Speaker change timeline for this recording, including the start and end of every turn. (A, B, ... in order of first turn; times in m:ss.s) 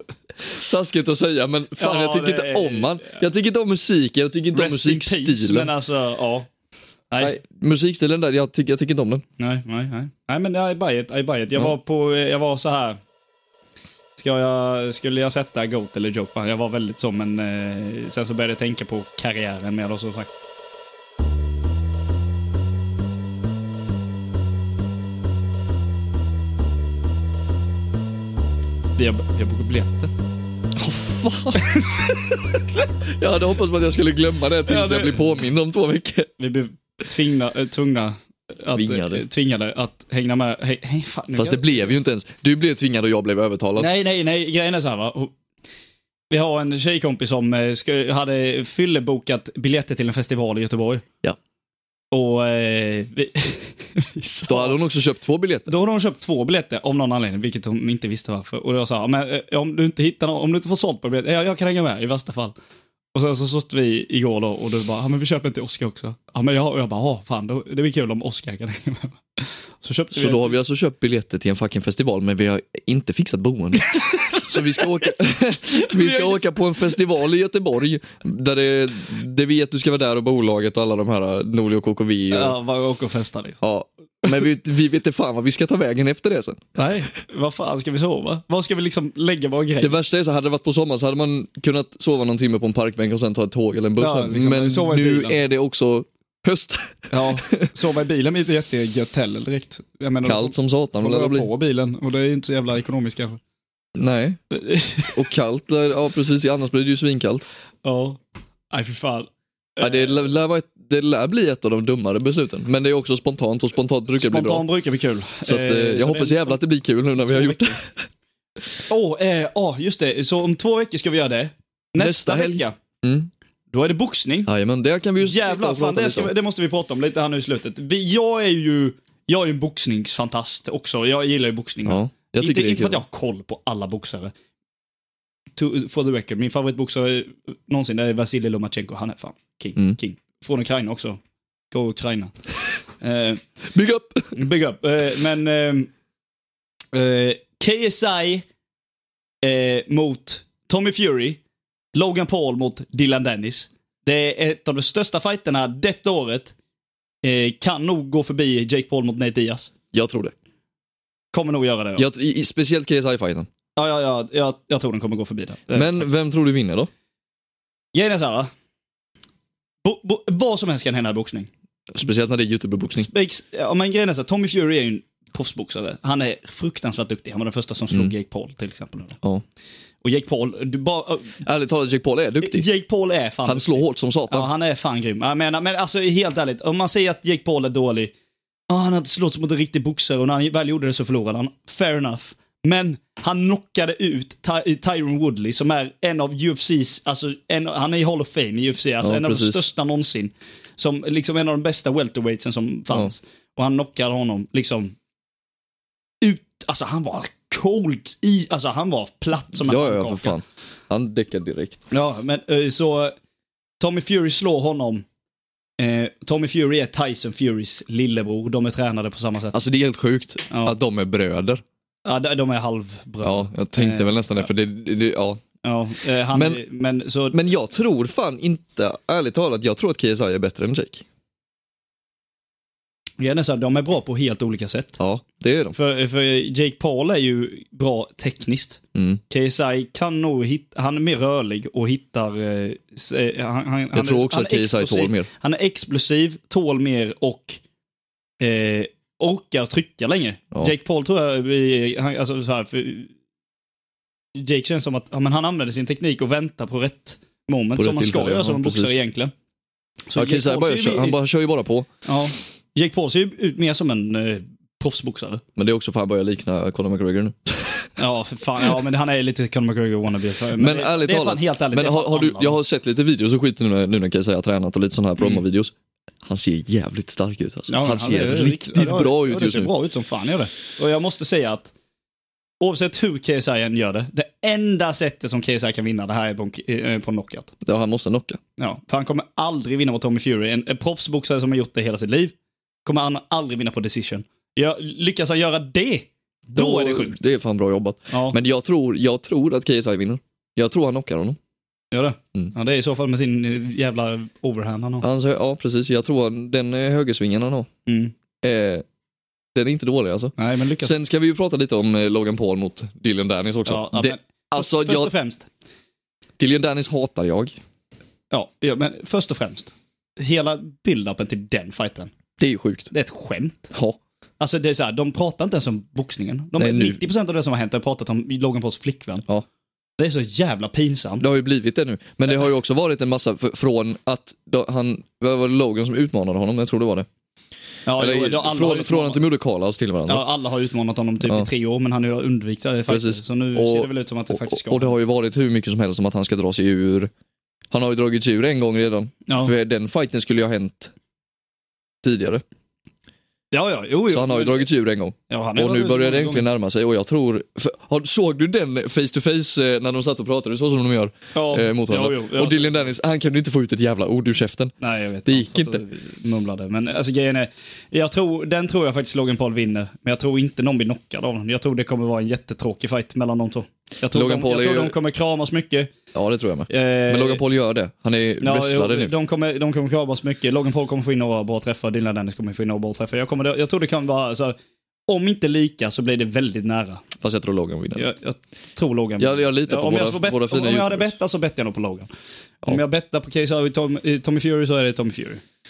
0:00.4-0:05.7 A
0:01.8-0:03.2 B
0:04.5-0:06.5 B
0:07.1-0:07.4 B
0:07.2-0:09.2 A
0:09.4-0:13.0 B
0:14.2-0:20.3 B
0:29.0-0:30.1 B
0:30.8-0:36.3 A
0:31.6-0:32.1 B
0:34.7-0:35.3 B
0:36.4-0:42.0 B
0:38.7-0:39.2 A
0:41.4-0:43.9 A
0:43.8-0:45.3 B
0:46.3-0:51.0 B
0:52.1-0:54.8 B
0:54.5-0:55.7 A
0:55.7-1:02.6 B
1:03.1-1:10.5 B
1:10.1-1:22.6 A
1:14.0-1:15.2 B
1:15.7-1:16.7 B
1:22.3-1:23.6 B
1:23.6-1:26.6 A
1:26.8-1:30.0 B
1:29.8-1:37.7 A
1:34.0-1:35.4 B
1:37.1-1:43.4 B
1:40.2-1:41.5 A
1:44.0-1:44.4 A
1:44.5-1:45.2 B
1:45.1-1:47.5 A
1:47.8-1:48.2 B
1:48.7-1:50.2 B
1:49.8-1:54.6 A
1:54.2-1:56.6 B
1:55.4-1:58.0 A
1:57.2-1:57.8 B
1:58.9-2:02.8 B
2:02.0-2:03.3 A
2:03.7-2:04.5 B
2:04.5-2:06.3 A
2:05.2-2:14.3 B
2:11.9-2:13.0 A
2:15.6-2:21.2 B
2:21.7-2:22.3 B
2:23.0-2:23.4 B
2:23.7-2:24.4 A
2:24.3-2:25.9 B
2:26.9-2:28.5 B
2:29.4-2:31.4 B
2:31.9-2:36.6 B
2:37.2-2:39.7 B
2:39.9-2:40.3 A
2:41.3-2:42.1 B
2:42.0-2:43.5 A
2:43.8-2:46.1 B
2:45.7-2:46.9 A
2:47.9-2:48.5 B
2:49.8-2:51.5 B
2:51.9-2:53.1 A
2:52.9-2:59.2 B
3:00.0-3:01.4 B
3:01.4-3:02.7 A
3:02.4-3:08.1 B
3:03.5-3:04.5 A
3:08.7-3:25.0 B
3:19.0-3:19.6 A
3:26.2-3:30.4 B
3:29.5-3:31.8 A
3:31.9-3:33.2 B
3:33.8-3:35.0 B
3:35.8-3:39.6 B
3:39.5-3:41.6 A
3:40.5-3:40.8 B
3:42.0-3:44.5 B
3:43.2-3:45.4 A
3:45.6-3:47.4 B
3:46.3-3:46.6 A
3:47.3-3:51.0 A
3:53.2-3:55.0 B
3:55.0-3:55.8 A
3:55.7-4:07.6 B
3:59.0-3:59.2 A
4:03.9-4:05.3 A
4:08.4-4:13.1 B
4:14.4-4:19.3 B
4:17.8-4:19.0 A
4:20.1-4:21.2 B
4:20.2-4:21.9 A
4:22.0-4:25.4 B
4:25.6-4:27.9 A
4:28.0-4:32.6 B
4:30.6-4:35.7 A
4:36.2-4:39.7 A
4:37.7-4:41.7 B
4:42.6-4:47.6 B
4:47.6-4:48.4 A
4:48.6-4:57.2 B
4:56.6-5:01.4 A
4:58.1-4:58.4 B
5:01.9-5:05.1 B
5:05.0-5:07.7 A
5:07.9-5:08.2 B
5:08.4-5:08.8 A
5:09.6-5:15.1 A
5:10.4-5:10.9 B
5:13.7-5:15.5 B
5:16.4-5:17.6 A
5:18.3-5:22.1 B
5:22.4-5:22.9 A
5:22.9-5:23.7 B
5:23.7-5:24.0 A
5:24.4-5:29.2 B
5:26.6-5:27.0 A
5:30.0-5:31.3 B
5:31.2-5:37.1 A
5:37.9-5:39.2 B
5:38.0-5:40.2 A
5:40.1-5:45.0 B
5:42.9-5:47.1 A
5:47.7-5:50.9 A
5:49.3-5:49.5 B
5:52.0-5:52.4 A
5:53.5-5:54.7 B
5:54.1-6:04.7 A
5:55.3-5:56.5 B
6:01.4-6:02.9 B
6:04.8-6:15.9 B
6:05.3-6:05.8 A
6:14.1-6:15.0 A
6:16.1-6:19.1 A
6:16.7-6:17.4 B
6:18.4-6:24.6 B
6:25.1-6:27.1 B
6:27.2-6:28.1 A
6:28.0-6:32.1 B
6:29.2-6:31.2 A
6:32.6-6:35.4 B